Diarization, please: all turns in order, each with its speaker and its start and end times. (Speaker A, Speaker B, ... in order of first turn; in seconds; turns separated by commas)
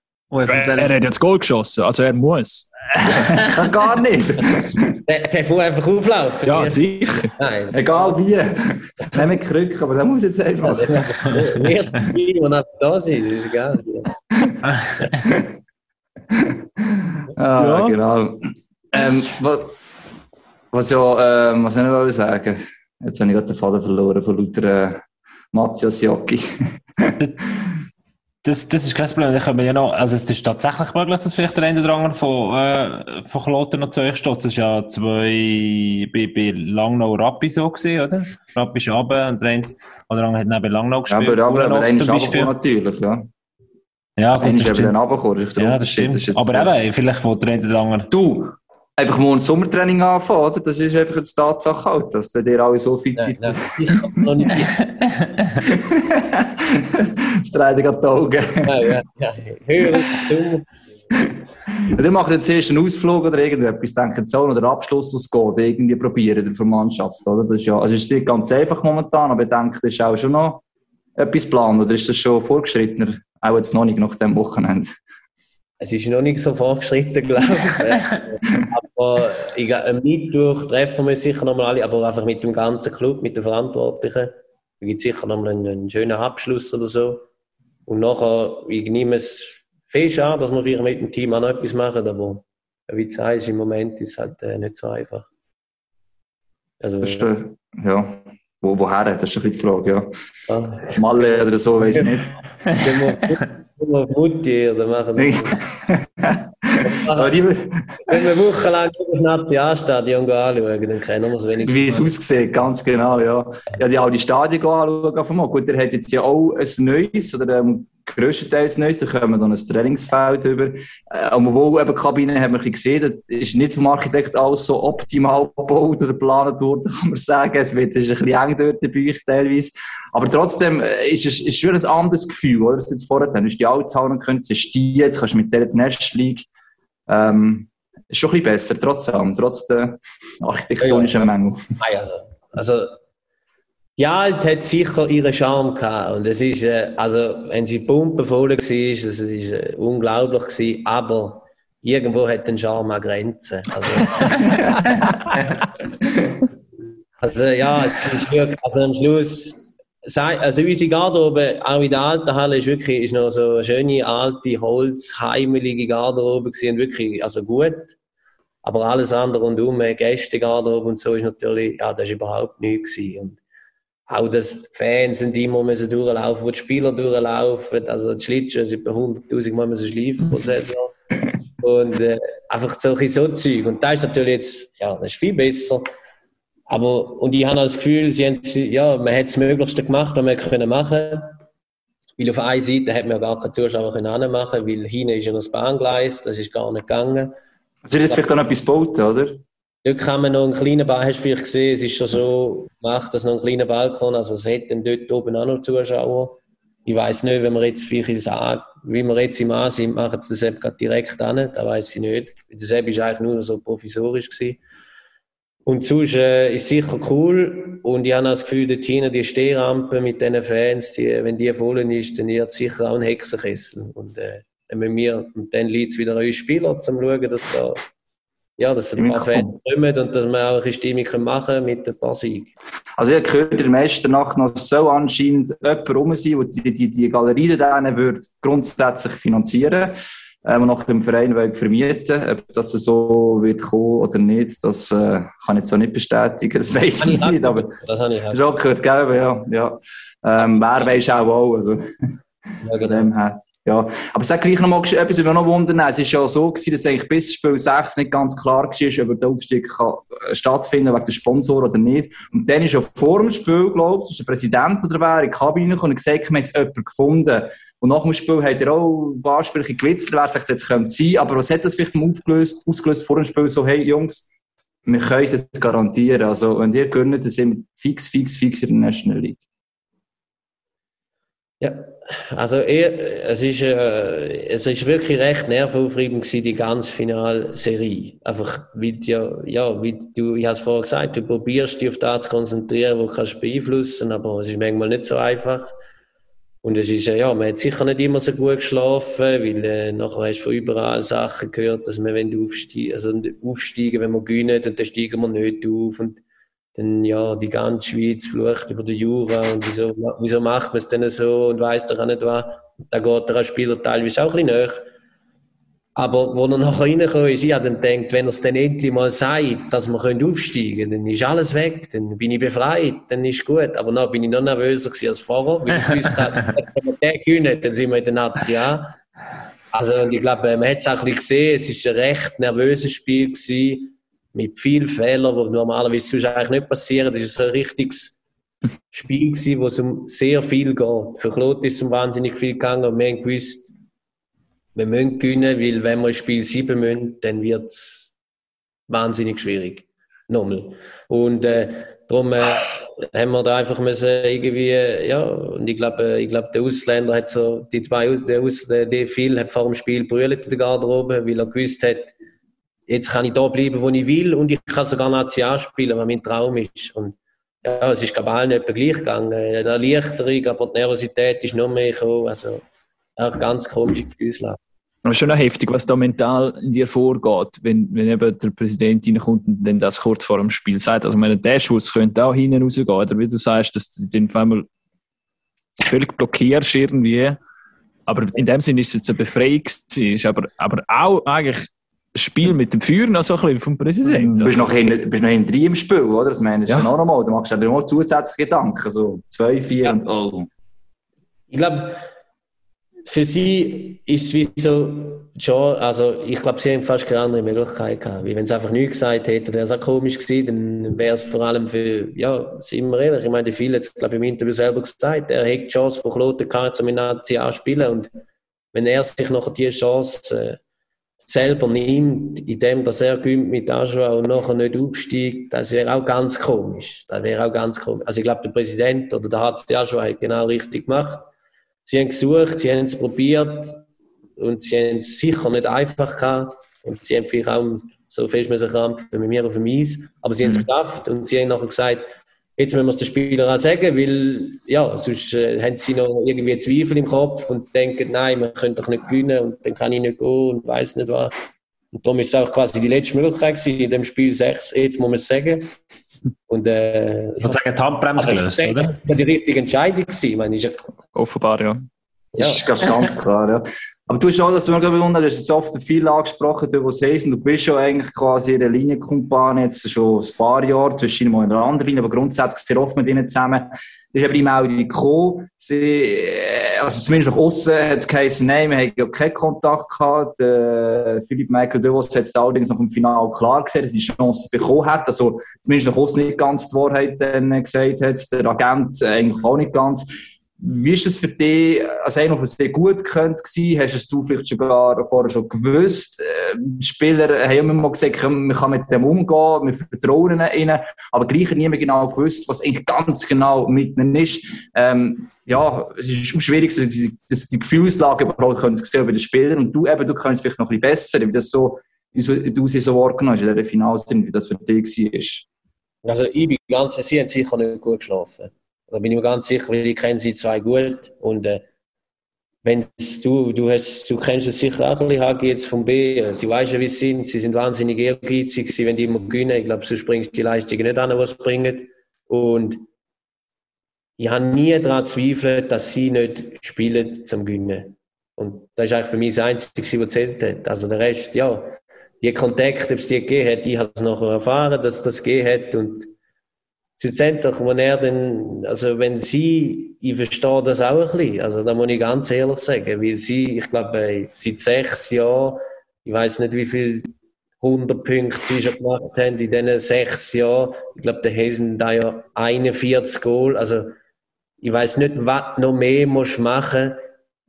Speaker A: 0.3-0.9, Speaker B: 0.5-3.5, Speaker C: 3.3-4.9, Speaker D: 5.1-8.2, Speaker B: 6.4-7.3, Speaker C: 7.7-11.5, Speaker D: 10.6-14.1, Speaker C: 15.2-15.5, Speaker C: 16.3-19.7, Speaker B: 17.6-18.0, Speaker C: 20.7-27.2, Speaker A: 28.4-42.5, Speaker C: 41.1-43.3, Speaker A: 44.2-45.0, Speaker C: 44.4-46.7, Speaker A: 45.6-48.1, Speaker C: 48.1-54.3, Speaker D: 53.2-54.9, Speaker A: 55.0-55.2, Speaker C: 55.6-58.9, Speaker D: 58.6-60.7, Speaker C: 61.2-70.6, Speaker C: 71.2-75.0, Speaker D: 75.8-87.2, Speaker D: 87.9-95.3, Speaker D: 96.8-97.3, Speaker C: 97.0-100.1, Speaker D: 100.5-102.1, Speaker C: 100.9-102.3, Speaker D: 102.7-105.6, Speaker C: 105.2-108.2, Speaker D: 106.8-107.4, Speaker D: 108.1-112.1, Speaker C: 111.6-136.5, Speaker C: 137.1-141.6, Speaker D: 140.8-143.0, Speaker D: 144.0-155.2, Speaker D: 157.2-167.9, Speaker D: 168.6-173.4, Speaker D: 174.1-180.9, Speaker D: 181.6-185.8, Speaker D: 186.7-191.4, Speaker D: 192.2-197.3, Speaker C: 197.8-199.4, Speaker D: 199.8-214.6, Speaker D: 215.7-227.8, Speaker D: 228.6-232.5, Speaker C: 228.9-229.5, Speaker C: 233.0-247.8, Speaker D: 247.0-248.4, Speaker C: 248.3-251.8, Speaker D: 250.4-251.0, Speaker D: 252.6-253.1, Speaker C: 252.7-274.3, Speaker C: 274.9-279.4, Speaker D: 281.6-295.7, Speaker D: 296.6-306.2, Speaker D: 306.8-314.8, Speaker D: 315.9-328.9, Speaker D: 329.7-338.1, Speaker D: 338.9-343.7, Speaker D: 344.7-348.1, Speaker D: 348.9-362.1, Speaker D: 362.9-372.6, Speaker D: 373.2-374.6, Speaker B: 375.0-384.7, Speaker B: 385.8-387.4, Speaker B: 388.1-394.7, Speaker C: 394.0-400.5, Speaker D: 401.5-402.0, Speaker D: 403.1-418.1, Speaker D: 418.7-420.6, Speaker D: 421.2-431.3, Speaker D: 431.9-433.8, Speaker D: 434.4-442.0, Speaker D: 442.6-451.3, Speaker D: 451.9-455.8, Speaker D: 456.5-457.6, Speaker A: 457.4-459.0, Speaker D: 458.1-460.9, Speaker B: 461.1-461.8, Speaker D: 462.3-462.7, Speaker C: 462.3-515.5, Speaker D: 516.0-521.6, Speaker D: 522.6-532.8, Speaker D: 534.2-546.1, Speaker D: 547.0-563.9, Speaker D: 564.6-567.0